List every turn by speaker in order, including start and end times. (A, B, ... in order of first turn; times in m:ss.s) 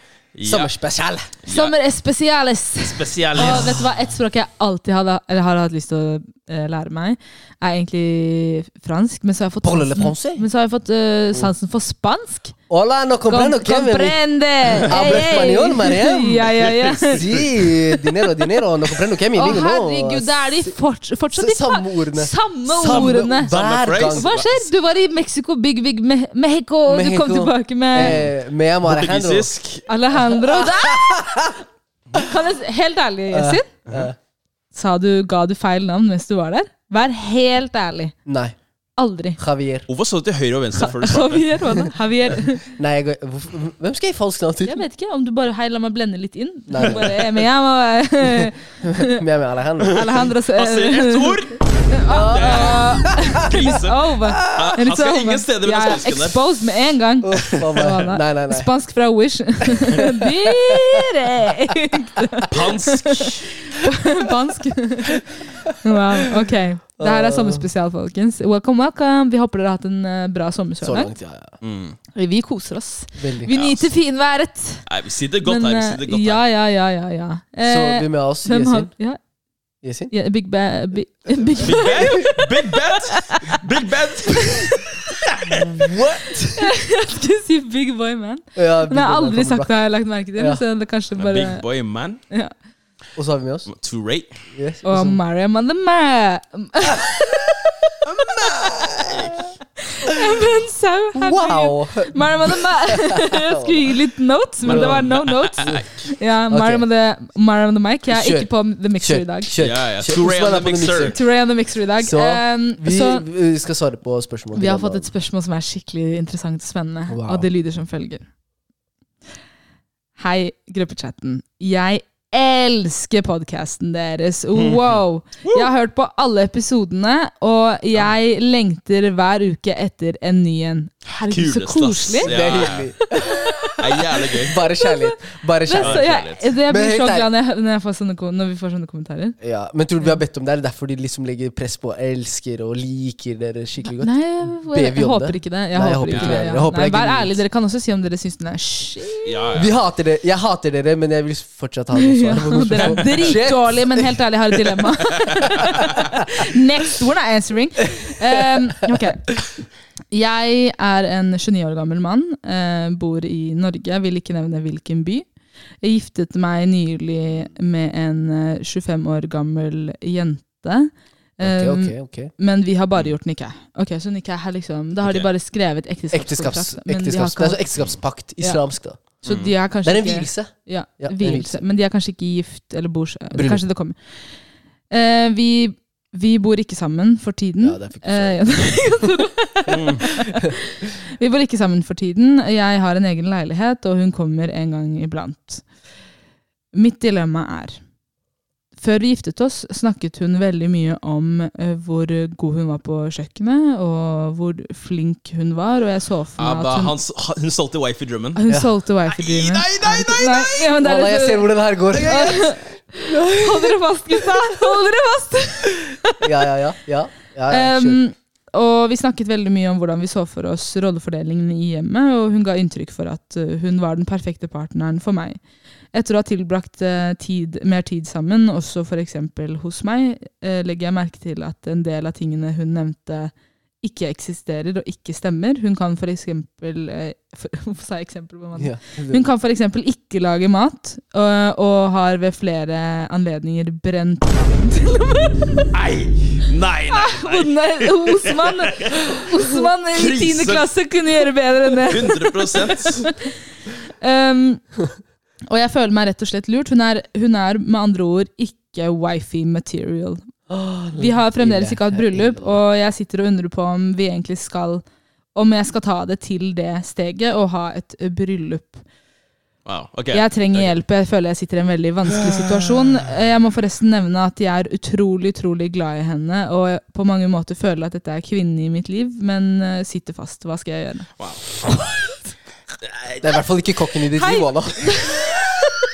0:00.3-0:00.7 A
0:00.4-0:01.4 B
0:01.4-0:01.7 A
0:01.5-0:12.6 C
0:02.8-0:03.8 A
0:03.4-0:03.7 B
0:09.6-0:10.4 B
0:12.7-0:14.2 B
0:13.3-0:18.2 C
0:14.8-0:15.3 A
0:14.8-0:16.5 B
0:16.5-0:17.4 A
0:17.1-0:20.7 B
0:19.3-0:23.5 C
0:21.3-0:24.3 B
0:22.8-0:24.7 A
0:24.1-0:28.2 C
0:26.9-0:29.5 B
0:27.9-0:28.3 A
0:28.8-0:29.9 A
0:29.9-0:31.3 C
0:30.6-0:31.6 B
0:32.1-0:33.7 C
0:33.3-0:34.2 B
0:34.7-0:38.1 C
0:38.2-0:38.6 B
0:39.0-0:39.4 C
0:39.4-0:39.9 B
0:39.9-0:41.5 A
0:40.8-0:42.6 C
0:42.6-0:44.8 B
0:44.6-0:49.2 C
0:46.7-0:47.4 B
0:48.2-0:50.1 B
0:49.9-1:11.1 C
0:49.9-0:56.4 A
0:52.1-0:53.2 B
0:57.2-0:58.7 B
1:00.0-1:01.0 B
1:02.5-1:03.5 A
1:07.0-1:07.7 B
1:10.8-1:11.6 B
1:11.6-1:12.0 A
1:12.1-1:14.8 C
1:13.2-1:13.5 B
1:13.5-1:13.9 A
1:14.9-1:16.4 A
1:15.4-1:19.2 C
1:17.6-1:18.9 B
1:19.8-1:20.1 B
1:20.1-1:23.6 C
1:21.6-1:26.0 A
1:21.8-1:22.3 B
1:24.3-1:24.8 C
1:25.4-1:26.7 B
1:26.5-1:31.6 C
1:28.6-1:29.7 B
1:30.4-1:30.6 B
1:31.2-1:32.2 A
1:33.2-1:33.7 B
1:33.7-1:34.3 A
1:34.5-1:35.2 B
1:34.8-1:37.4 C
1:38.0-1:39.4 A
1:38.4-1:39.4 B
1:39.8-1:49.5 C
1:41.1-1:43.9 B
1:44.6-1:45.0 B
1:44.6-1:46.1 A
1:45.6-1:45.8 B
1:46.5-1:46.8 B
1:48.1-1:51.2 B
1:49.6-1:51.2 A
1:51.0-1:53.2 C
1:52.0-1:55.1 B
1:54.5-1:58.2 C
1:57.1-1:57.5 B
2:00.2-2:12.3 C
2:04.5-2:05.7 A
2:11.3-2:12.9 A
2:12.2-2:17.3 B
2:13.1-2:14.3 C
2:13.7-2:14.6 A
2:14.8-2:19.3 C
2:15.8-2:16.4 A
2:19.4-2:24.1 B
2:23.8-2:29.5 C
2:24.7-2:27.4 B
2:26.1-2:26.4 A
2:29.2-2:29.7 A
2:29.5-2:34.2 B
2:31.9-2:39.4 C
2:40.1-2:45.3 C
2:45.8-2:57.6 C
2:51.4-2:52.3 B
2:55.0-2:55.3 A
2:56.1-2:59.2 B
2:59.2-3:04.0 C
2:59.2-2:59.5 A
2:59.8-3:01.6 B
3:03.3-3:03.6 B
3:04.9-3:15.6 C
3:07.6-3:09.1 B
3:09.7-3:10.1 A
3:10.1-3:10.5 B
3:16.7-3:17.8 C
3:18.8-3:26.9 C
3:26.4-3:28.4 A
3:28.4-3:36.2 C
3:29.1-3:30.7 A
3:30.8-3:34.6 B
3:31.9-3:32.2 A
3:36.2-3:38.0 B
3:37.5-3:45.4 C
3:45.9-4:05.7 C
3:58.6-3:59.3 B
4:05.7-4:10.7 A
4:06.9-4:13.3 C
4:11.8-4:13.1 A
4:13.9-4:14.6 C
4:15.5-4:20.2 C
4:20.5-4:22.6 B
4:21.0-4:24.8 C
4:25.3-4:28.8 C
4:29.6-4:30.7 A
4:30.1-4:41.1 C
4:32.3-4:32.6 A
4:41.2-4:41.4 A
4:42.8-4:43.4 A
4:43.2-4:45.6 B
4:44.1-4:45.6 C